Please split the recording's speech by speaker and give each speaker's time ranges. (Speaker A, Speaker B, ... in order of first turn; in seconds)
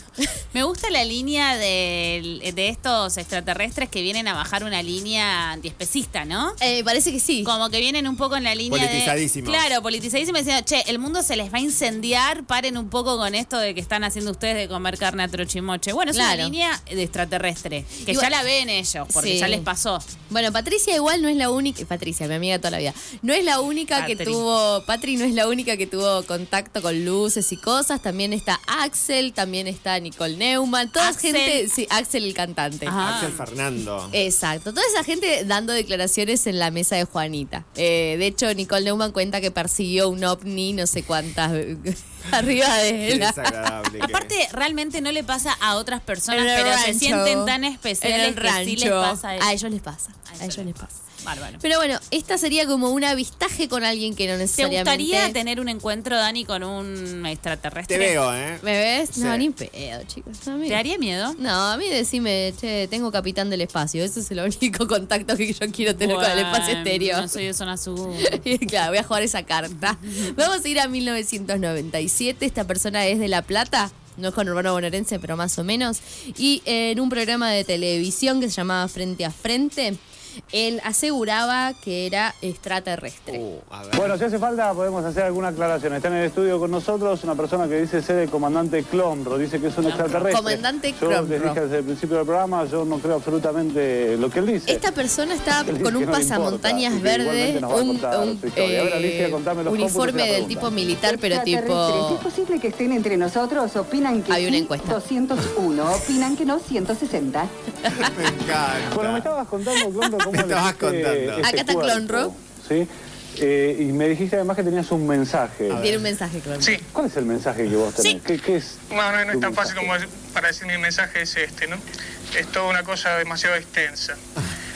Speaker A: 0.5-6.6, 7.4-20.1, 23.9-24.4, 31.0-31.7, 32.8-33.5, 44.0-49.5, 50.2-51.6, 54.5-58.2, 60.6-61.4, 66.0-68.4, 69.7-70.4, 89.8-90.3
Speaker B: 6.6-7.5, 16.1-16.5, 19.1-19.7, 20.3-33.0, 34.1-43.7, 46.3-50.9, 51.6-55.3, 58.6-60.8, 61.4-67.3, 68.2-80.0, 80.5-83.4, 90.3-91.6, 94.7-102.3, 104.3-105.0, 111.4-112.3, 115.8-116.8
Speaker C: 8.7-9.6, 33.0-34.2, 43.0-44.3, 57.9-59.5, 83.3-84.2, 108.0-109.4, 110.3-111.5, 115.7-116.1
Speaker D: 83.9-94.8, 95.5-100.7, 108.8-115.9, 116.9-119.9
Speaker E: 101.0-107.5
Speaker F: 116.6-116.8, 118.9-121.8, 122.3-124.2